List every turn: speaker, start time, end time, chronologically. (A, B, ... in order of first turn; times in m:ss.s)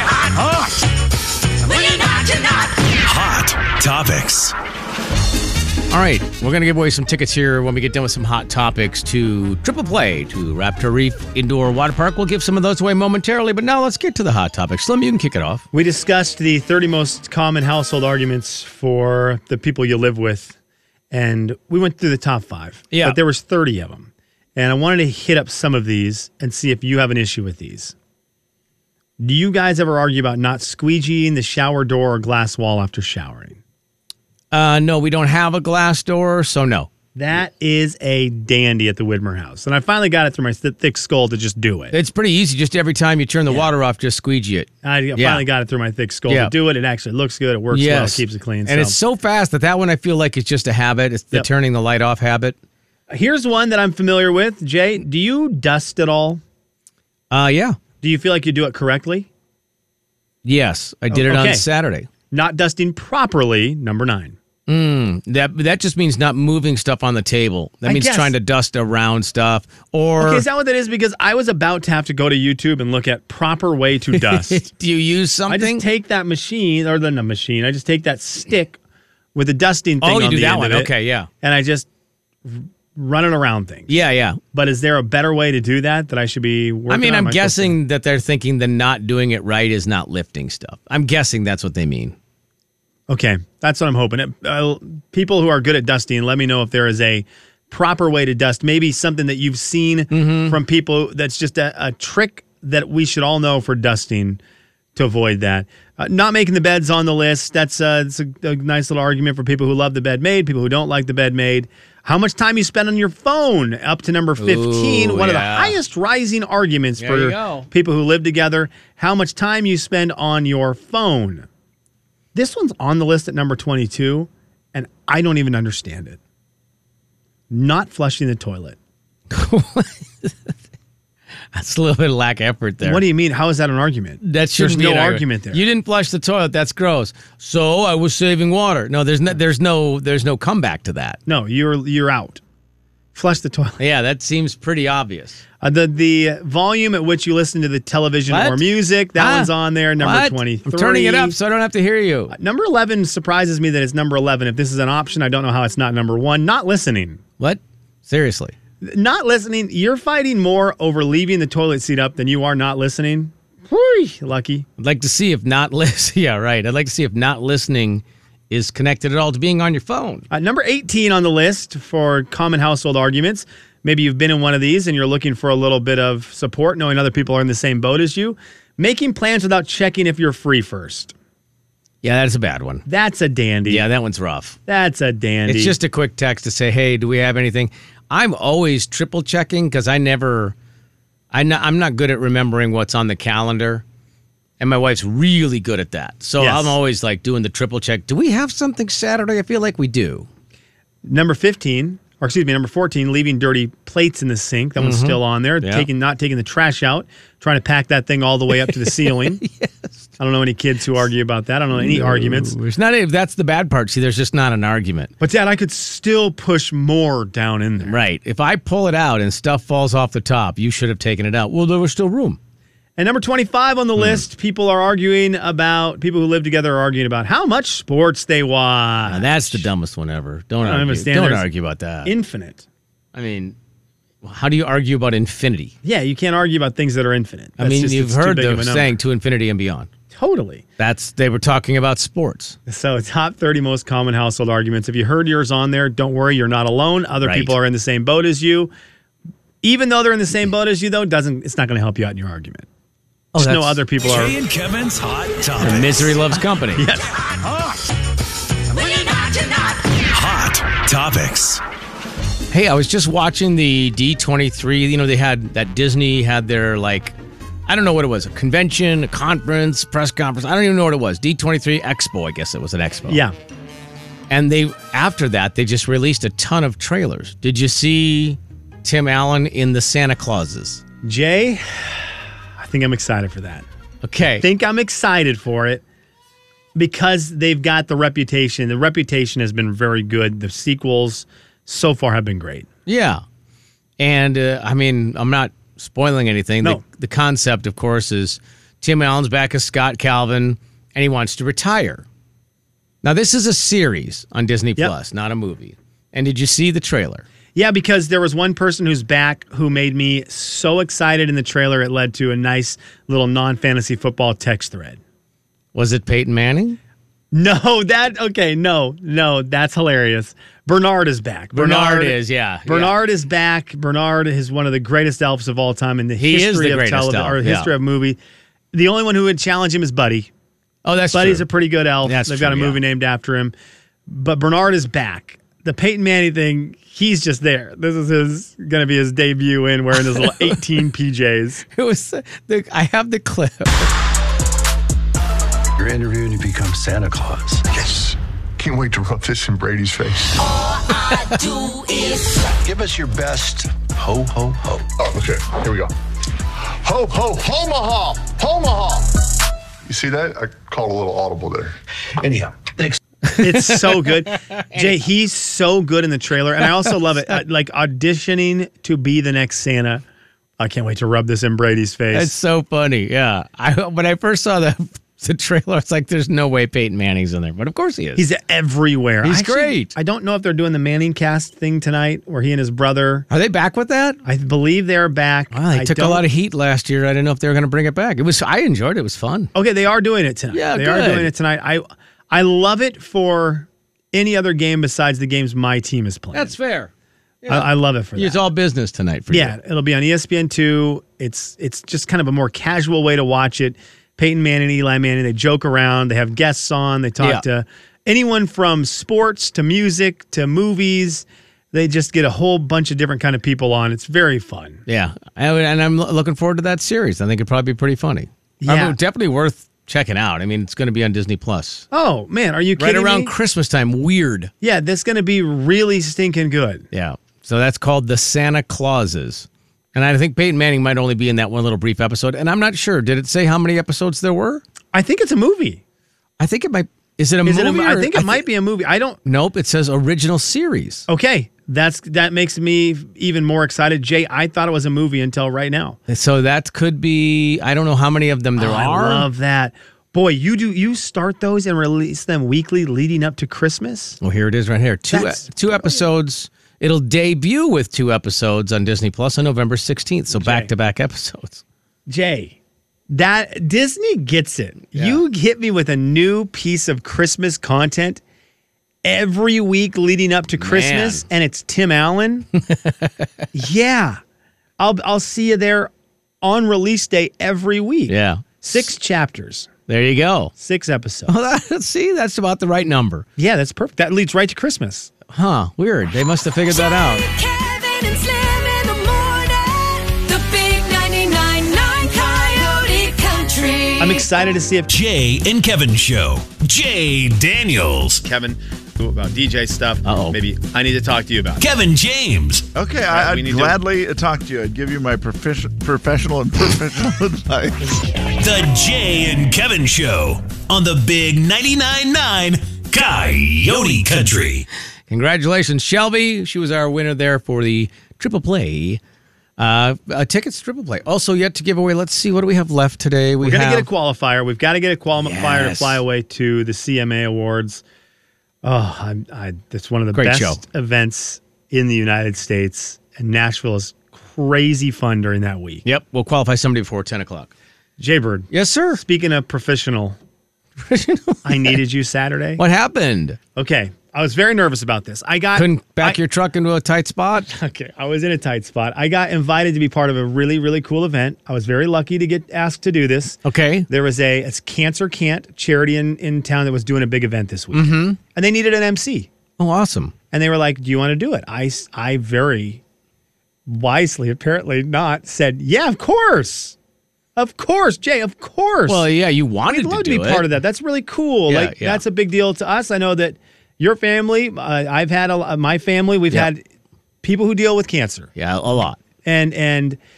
0:00.3-0:00.7 A
0:01.7-0:02.7 B
0:02.9-0:04.5 A
0:05.9-0:15.6 C
0:15.7-0:20.6 D
0:21.1-0:28.0 D
0:22.9-0:23.2 C
0:29.2-0:33.6 D
0:34.5-0:36.9 C
0:37.2-0:41.9 D
0:41.9-0:45.4 C
0:44.8-0:49.0 D
0:46.3-0:46.5 C
0:47.7-0:52.6 C
0:53.1-0:56.4 D
0:57.3-0:57.8 C
0:58.0-0:59.3 D
1:00.4-1:02.1 C
1:01.1-1:01.6 D
1:02.3-1:04.4 D
1:04.7-1:10.5 C
1:07.8-1:08.3 D
1:10.2-1:14.6 D
1:14.1-1:15.8 C
1:15.5-1:18.8 D
1:19.4-1:21.9 D
1:20.0-1:21.3 C
1:22.4-1:23.9 D
1:23.9-1:24.4 C
1:24.5-1:27.8 D
1:26.9-1:32.2 C
1:33.1-1:44.4 D
1:40.1-1:40.6 C
1:45.0-2:01.5 D
1:54.4-1:55.8 C
1:57.0-1:57.7 C
2:02.3-2:06.2 D
2:07.5-2:08.8 D
2:09.3-2:10.5 C
2:11.5-2:13.0 C
2:12.8-2:15.6 D
2:14.2-2:21.2 C
2:21.3-2:22.4 D
2:23.1-2:23.8 D
2:23.8-2:25.4 C
2:25.6-2:31.4 D
2:28.3-2:32.3 C
2:32.3-2:37.2 D
2:37.4-2:38.6 C
2:38.8-2:44.7 D
2:44.8-2:50.2 C
2:50.3-3:01.1 D
3:02.0-3:02.8 C
3:02.9-3:03.9 D
3:03.7-3:04.6 C
3:04.7-3:05.8 D
3:05.5-3:10.6 C
3:11.3-3:13.8 C
3:14.6-3:20.3 C
3:16.4-3:16.8 D
3:21.0-3:29.4 D
3:24.8-3:25.9 C
3:28.6-3:30.1 C
3:30.2-3:32.6 D
3:31.8-3:35.1 C
3:35.2-3:38.0 D
3:37.9-3:42.4 C
3:43.0-3:49.7 D
3:44.0-3:44.2 C
3:49.1-3:52.1 C
3:50.6-3:51.5 D
3:52.0-3:52.6 D
3:53.1-3:53.6 C
3:54.2-3:55.7 C
3:55.8-3:59.0 D
3:57.6-3:59.9 C
4:00.1-4:00.6 D
4:00.8-4:02.6 C
4:02.7-4:08.7 D
4:07.2-4:07.6 C
4:09.6-4:12.7 D
4:13.3-4:13.8 C
4:13.4-4:14.4 D
4:14.0-4:16.2 A
4:15.6-4:16.9 C
4:16.8-4:17.1 D
4:18.7-4:19.8 B
4:20.1-4:21.6 A
4:22.5-4:27.1 C
4:27.7-4:33.2 C
4:33.1-4:33.3 D
4:34.3-4:40.8 C
4:41.0-4:43.7 D
4:44.0-4:44.4 C
4:44.3-4:45.8 D
4:46.8-4:52.7 D
4:52.9-4:53.2 C
4:54.0-5:02.0 C
5:03.0-5:07.3 C
5:07.6-5:15.0 D
5:15.8-5:16.8 C
5:17.3-5:28.2 D
5:21.5-5:23.0 C
5:26.2-5:27.7 C
5:28.7-5:30.3 D
5:30.8-5:31.5 C
5:31.1-5:33.5 D
5:32.0-5:32.8 C
5:34.1-5:41.6 D
5:40.2-5:40.5 C
5:41.8-5:43.9 C
5:45.8-5:47.8 E
5:47.8-5:50.5 F
5:50.8-5:52.4 B
5:51.0-5:51.4 C
5:52.6-5:54.9 E
5:55.0-5:55.9 F
5:56.6-5:59.1 F
5:59.8-6:01.8 F
6:02.2-6:03.0 E
6:03.2-6:05.0 C
6:03.4-6:10.0 D
6:06.6-6:07.0 C
6:10.6-6:12.3 D
6:12.1-6:18.2 C
6:18.2-6:23.3 D
6:19.2-6:19.9 C
6:23.3-6:24.2 C
6:24.2-6:26.2 D
6:25.5-6:29.5 C
6:29.5-6:36.6 D
6:30.5-6:31.3 C
6:36.3-6:36.9 C
6:37.4-6:39.6 C
6:37.5-6:38.4 D
6:39.3-6:54.8 D
6:54.9-7:01.9 C
6:58.6-6:59.0 D
7:01.9-7:03.3 D
7:02.8-7:04.5 C
7:04.6-7:06.9 D
7:06.9-7:14.6 C
7:14.9-7:15.8 D
7:16.4-7:18.4 C
7:17.4-7:19.2 D
7:19.2-7:21.1 C
7:21.1-7:26.0 D
7:26.1-7:29.3 C
7:28.6-7:34.2 D
7:34.2-7:41.6 C
7:35.1-7:36.0 D
7:40.3-7:40.7 D
7:42.1-7:42.6 D
7:43.1-7:48.2 D
7:45.0-7:45.2 C
7:49.0-7:52.5 D
7:50.6-7:51.2 C
7:52.6-7:53.4 C
7:53.5-7:54.2 D
7:54.8-7:59.7 D
7:58.1-7:58.4 C
7:59.9-8:00.5 C
8:00.6-8:01.3 D
8:01.3-8:03.3 C
8:03.4-8:05.1 D
8:05.3-8:07.2 C
8:06.7-8:14.3 B
8:14.0-8:14.9 D
8:14.9-8:18.2 A
8:18.2-8:21.6 D
8:20.0-8:20.4 C
8:21.6-8:22.7 A
8:22.8-8:28.0 G
8:23.1-8:23.8 D
8:28.4-8:34.7 A
8:35.1-8:39.0 C
8:39.6-8:43.9 C
8:43.4-8:47.8 D
8:45.2-8:46.0 C
8:48.6-8:55.8 D
8:50.1-8:50.6 C
8:55.8-8:57.5 C
8:58.0-9:00.2 D
8:58.5-8:59.0 C
9:00.8-9:01.8 C
9:01.4-9:02.6 D
9:02.6-9:03.4 C
9:03.6-9:06.2 D
9:05.6-9:07.5 C
9:07.5-9:19.3 D
9:13.4-9:13.9 C
9:17.7-9:18.2 C
9:19.6-9:20.1 C
9:20.3-9:22.8 D
9:23.7-9:26.8 D
9:27.4-9:29.0 D
9:28.9-9:30.5 C
9:29.7-9:36.6 D
9:31.5-9:32.0 C
9:37.2-9:38.3 D
9:38.4-9:39.0 C
9:39.2-9:40.0 D